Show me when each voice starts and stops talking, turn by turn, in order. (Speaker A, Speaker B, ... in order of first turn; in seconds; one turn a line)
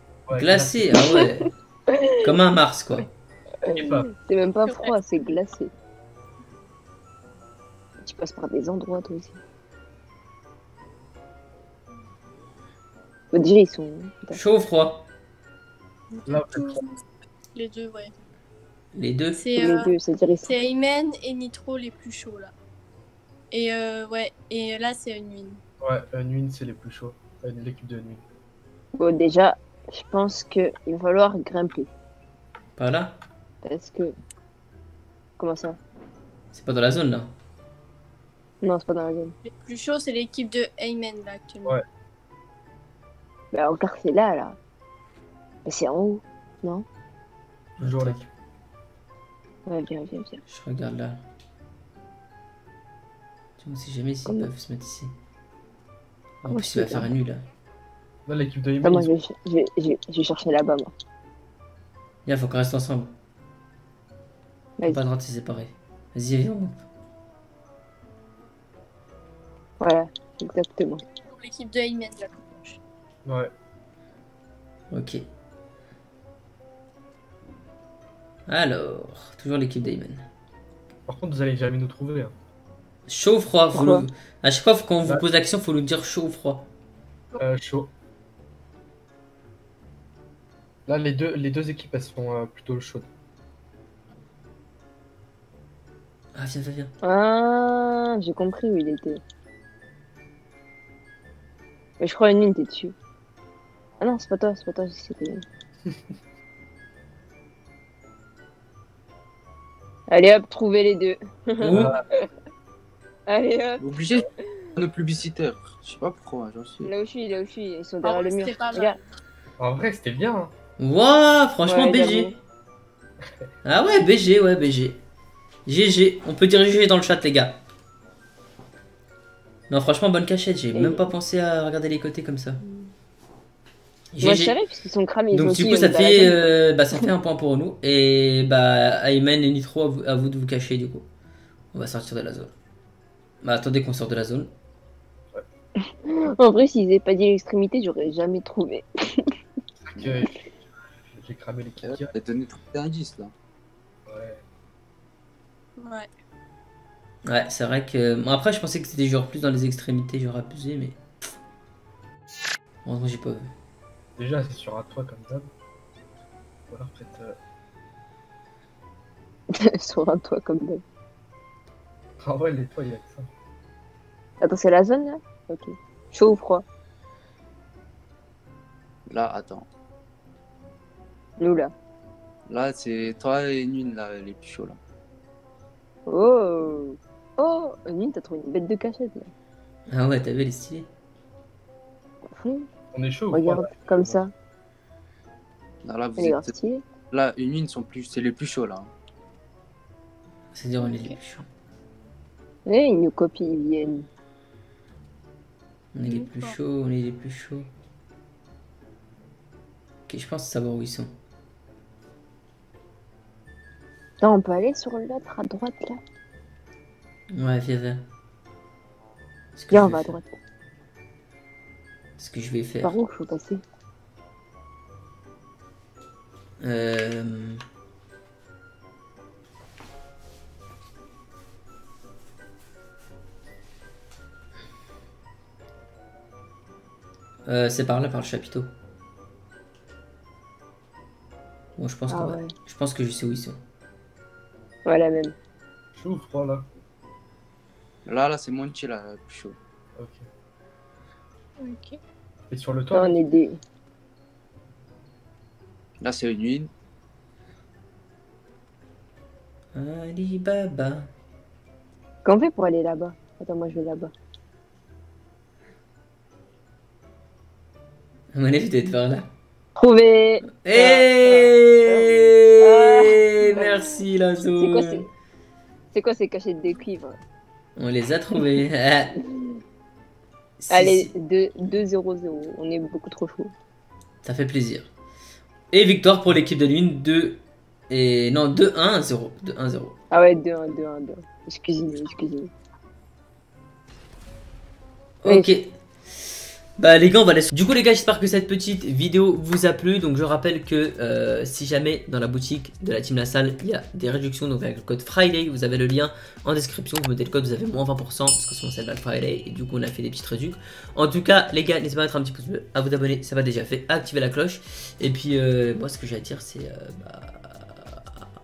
Speaker A: 0.3-1.0
Speaker B: 0.3-1.5
Speaker B: 2.2-3.1
Speaker C: 3.6-5.7
Speaker A: 3.7-4.1
Speaker D: 4.7-5.0
Speaker C: 8.0-9.4
Speaker C: 13.3-14.4
Speaker B: 14.3-15.1
Speaker D: 16.1-17.0
Speaker A: 16.3-16.8
Speaker D: 17.5-18.1
Speaker B: 18.9-19.4
Speaker D: 19.3-22.5
Speaker C: 19.5-20.6
Speaker D: 23.5-25.6
Speaker A: 25.8-28.2
Speaker C: 28.9-31.9
Speaker B: 32.8-33.2
Speaker C: 33.6-34.1
Speaker C: 35.4-35.8
Speaker B: 36.5-37.3
Speaker C: 38.6-39.3
Speaker D: 39.4-41.8
Speaker C: 43.5-44.6
Speaker C: 45.6-46.8
Speaker A: 47.8-48.2
Speaker B: 47.8-48.3
Speaker C: 49.6-50.4
Speaker B: 50.5-51.2
Speaker B: 53.6-55.1
Speaker B: 56.4-57.5
Speaker C: 56.5-57.1
Speaker A: 58.2-59.1
Speaker C: 58.8-60.9
Speaker B: 62.2-63.1
Speaker B: 64.8-66.8
Speaker C: 69.8-71.0
Speaker D: 71.2-72.8
Speaker A: 73.2-73.5
Speaker B: 74.9-75.2
Speaker B: 78.5-80.3
Speaker A: 81.1-82.3
Speaker B: 83.1-86.7
Speaker C: 83.7-84.0
Speaker A: 87.4-87.9
Speaker A: 90.8-93.1
Speaker B: 96.3-96.9
Speaker C: 97.0-99.2
Speaker C: 102.0-102.9
Speaker C: 104.0-105.4
Speaker C: 110.1-112.2
Speaker B: 111.6-111.9
Speaker A: 111.7-112.0
Speaker C: 113.3-113.9
Speaker E: 113.8-116.9
Speaker C: 116.8-119.0
Speaker D: 118.0-119.0
Speaker A: 119.6-120.5
Speaker B: 120.8-122.3
Speaker C: 121.7-122.3
Speaker B: 123.6-125.0
Speaker B: 125.7-127.6
Speaker B: 129.7-132.6
Speaker C: 130.7-131.1
Speaker B: 134.1-134.6
Speaker C: 134.2-136.5
Speaker B: 135.3-141.1
Speaker B: 141.7-142.5
Speaker B: 143.4-144.5
Speaker C: 146.0-149.3
Speaker A: 149.9-150.5
Speaker A: 151.1-152.1
Speaker E: 151.8-153.3
Speaker A: 154.1-154.4
Speaker D: 155.8-156.1
Speaker B: 157.2-161.0
Speaker B: 162.8-163.5
Speaker A: 164.2-165.5
Speaker A: 166.7-167.4
Speaker C: 169.5-170.8
Speaker A: 172.2-173.3
Speaker C: 174.4-176.6
Speaker E: 179.1-179.7
Speaker C: 181.4-181.7
Speaker E: 182.5-184.8
Speaker C: 186.1-189.3
Speaker B: 189.9-190.9
Speaker C: 192.3-192.7
Speaker A: 192.9-194.2
Speaker C: 193.3-194.3
Speaker E: 195.8-196.5
Speaker C: 196.2-196.9
Speaker E: 197.1-198.9
Speaker B: 200.5-201.5
Speaker D: 200.8-201.1
Speaker C: 202.7-204.1
Speaker B: 205.9-207.7
Speaker D: 206.0-206.6
Speaker B: 210.1-211.1
Speaker C: 214.2-216.0
Speaker B: 217.3-218.0
Speaker B: 219.6-220.2
Speaker C: 219.7-220.3
Speaker B: 222.2-222.9
Speaker C: 222.8-223.6
Speaker B: 226.6-227.6
Speaker B: 237.4-238.7
Speaker B: 241.8-243.6
Speaker C: 242.1-242.5
Speaker C: 244.8-245.3
Speaker A: 245.9-246.7
Speaker E: 248.1-249.6
Speaker A: 249.9-250.2
Speaker D: 251.6-252.0
Speaker A: 252.5-253.2
Speaker C: 252.9-253.6
Speaker E: 256.0-256.7
Speaker B: 259.7-261.1
Speaker C: 262.2-264.1
Speaker B: 268.3-269.3
Speaker C: 269.8-274.0
Speaker B: 270.6-275.0
Speaker C: 274.6-275.0
Speaker C: 275.9-277.2
Speaker B: 277.8-279.2
Speaker B: 280.6-281.1
Speaker C: 280.7-283.5
Speaker B: 284.2-284.9
Speaker B: 285.7-289.9
Speaker C: 290.1-292.5
Speaker B: 295.2-295.7
Speaker C: 295.2-295.5
Speaker B: 296.8-318.0